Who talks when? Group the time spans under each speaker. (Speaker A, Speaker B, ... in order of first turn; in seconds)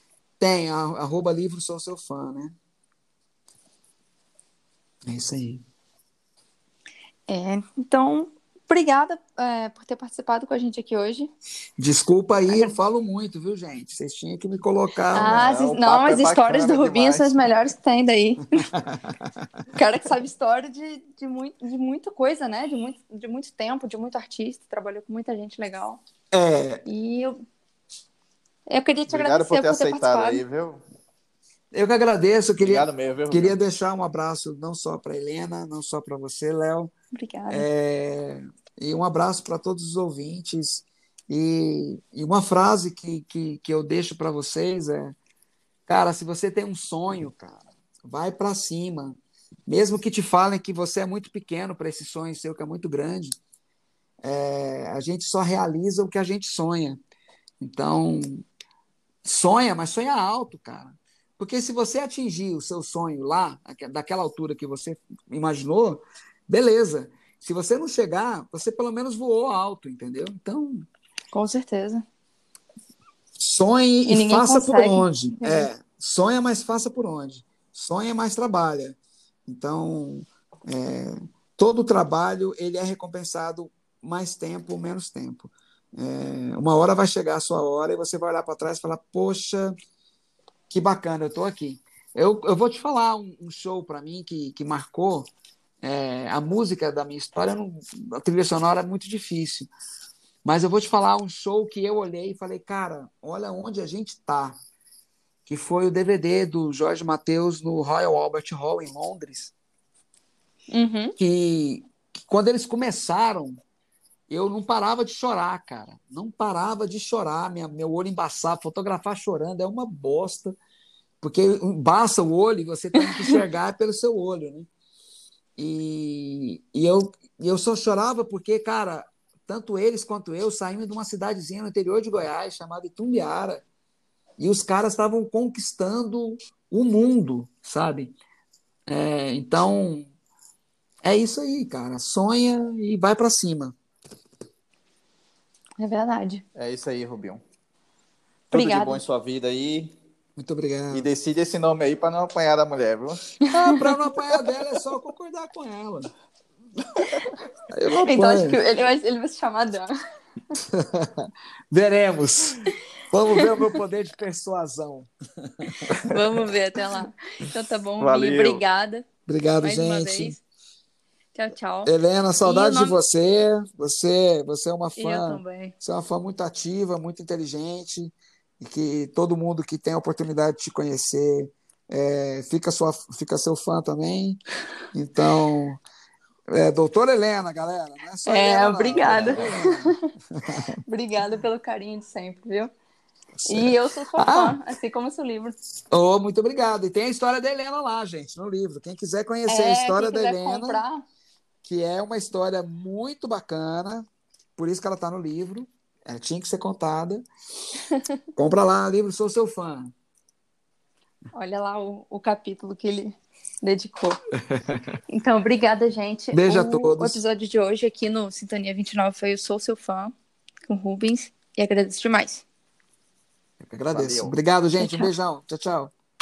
Speaker A: 0.4-2.5, 5.0-5.6, 11.8-15.4, 18.7-19.5, 26.3-26.9, 31.7-36.9, 37.5-45.1, 45.9-53.4, 54.2-57.0, 57.6-58.5, 59.2-70.9, 73.4-89.8, 90.7-95.3, 95.8-99.7, 100.4-104.6, 105.5-109.5, 111.2-113.6, 114.3-120.6, 121.2-124.7, 125.6-133.6, 134.4-138.2, 138.9-140.1, 141.0-143.8, 150.4-151.1, 153.5-156.1, 157.7-158.6, 160.7-166.2, 169.3-170.4, 171.8-184.4, 184.9-185.8, 186.5-190.8, 193.4-194.6, 195.9-200.8, 201.6-207.2, 208.4-209.9, 214.5-215.0, 216.3-217.2, 223.6-225.9
Speaker B: 7.3-11.3, 12.5-12.7, 15.1-18.7, 19.7-26.0, 26.9-27.4, 28.7-30.4, 37.1-37.7, 71.3-72.0, 74.1-75.7, 110.7-111.2, 145.8-146.4, 148.5-149.0, 153.4-153.9, 158.0-159.9, 163.4-163.8, 165.8-169.1, 169.6-170.4, 171.3-171.9, 172.4-173.0, 175.0-175.7, 188.3-190.0, 190.9-192.7, 193.5-195.6, 199.5-201.1, 211.3-214.2, 215.1-220.1, 220.7-222.4, 224.8-225.1
Speaker C: 15.2-17.5, 29.1-30.8, 32.6-33.6, 146.6-147.4, 148.5-149.9, 150.9-153.2, 157.1-157.3, 168.0-168.6, 189.0-189.5, 223.9-224.3